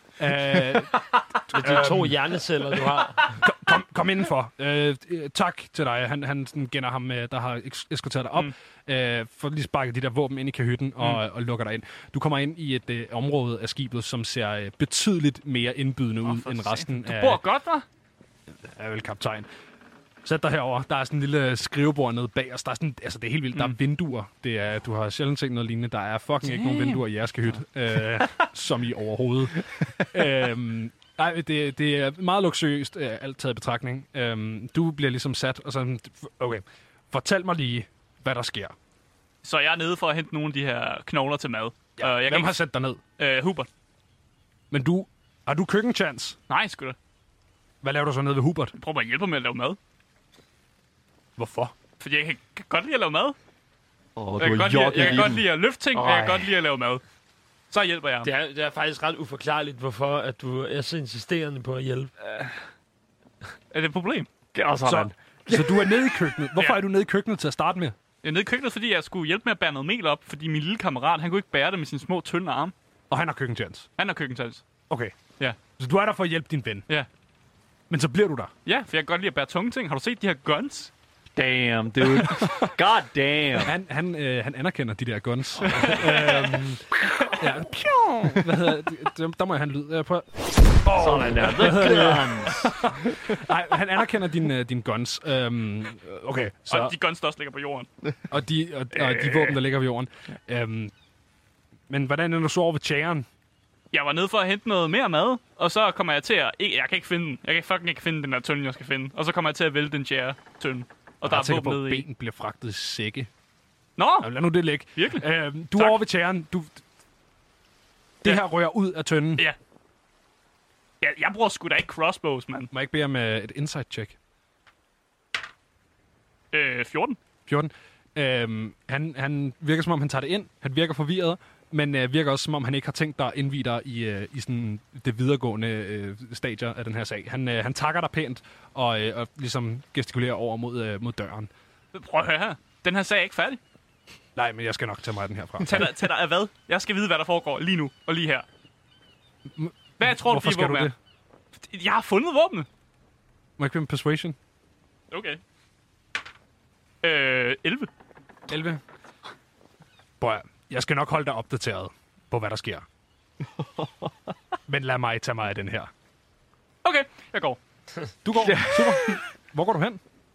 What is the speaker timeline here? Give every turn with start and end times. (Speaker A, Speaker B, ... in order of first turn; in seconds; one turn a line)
Speaker A: 0.2-2.2
Speaker B: 1.6-3.4
Speaker A: 3.4-17.4
Speaker C: 16.2-17.9
Speaker A: 18.6-19.5
Speaker A: 20.2-38.8
Speaker C: 26.4-27.0
Speaker C: 39.4-42.6
Speaker A: 42.0-43.0
Speaker C: 43.2-43.7
Speaker A: 44.7-46.4
Speaker C: 46.5-47.0
Speaker A: 47.8-48.7
Speaker C: 48.8-49.8
Speaker A: 51.4-51.7
Speaker C: 52.0-53.4
Speaker D: 54.2-56.5
Speaker C: 54.4-57.0
Speaker C: 57.7-58.3
Speaker B: 58.2-62.1
Speaker D: 62.2-62.5
Speaker C: 63.7-64.3
Speaker D: 64.5-66.1
Speaker A: 64.8-68.0
Speaker C: 68.2-72.7
Speaker A: 73.1-73.9
Speaker C: 74.0-74.7
Speaker A: 74.9-75.2
Speaker A: 75.8-76.9
Speaker A: 77.9-78.5
Speaker C: 78.7-80.9
Speaker D: 81.4-83.7
Speaker A: 82.2-82.7
Speaker A: 83.6-96.9
Speaker C: 85.8-86.6
Speaker D: 90.9-93.3
Speaker C: 96.7-97.9
Speaker A: 98.3-100.9
Speaker D: 98.9-99.6
Speaker A: 101.9-103.3
Speaker C: 103.9-112.1
Speaker A: 111.2-113.3
Speaker C: 114.0-114.3
Speaker A: 114.2-116.8
Speaker C: 115.0-116.0
Speaker A: 118.2-119.5
Speaker C: 121.0-122.7
Speaker A: 122.7-124.2
Speaker C: 126.5-127.2
Speaker A: 127.5-141.5
Speaker C: 141.9-143.6
Speaker A: 144.4-145.9
Speaker C: 145.6-148.4
Speaker A: 149.6-150.9
Speaker C: 150.0-150.9
Speaker C: 151.6-152.7
Speaker A: 153.6-154.4
Speaker C: 155.1-155.4
Speaker C: 157.0-157.9
Speaker A: 158.5-158.8
Speaker A: 160.2-162.8
Speaker D: 163.5-164.3
Speaker A: 164.7-165.9
Speaker C: 166.8-167.6
Speaker A: 168.2-170.0
Speaker D: 168.4-169.2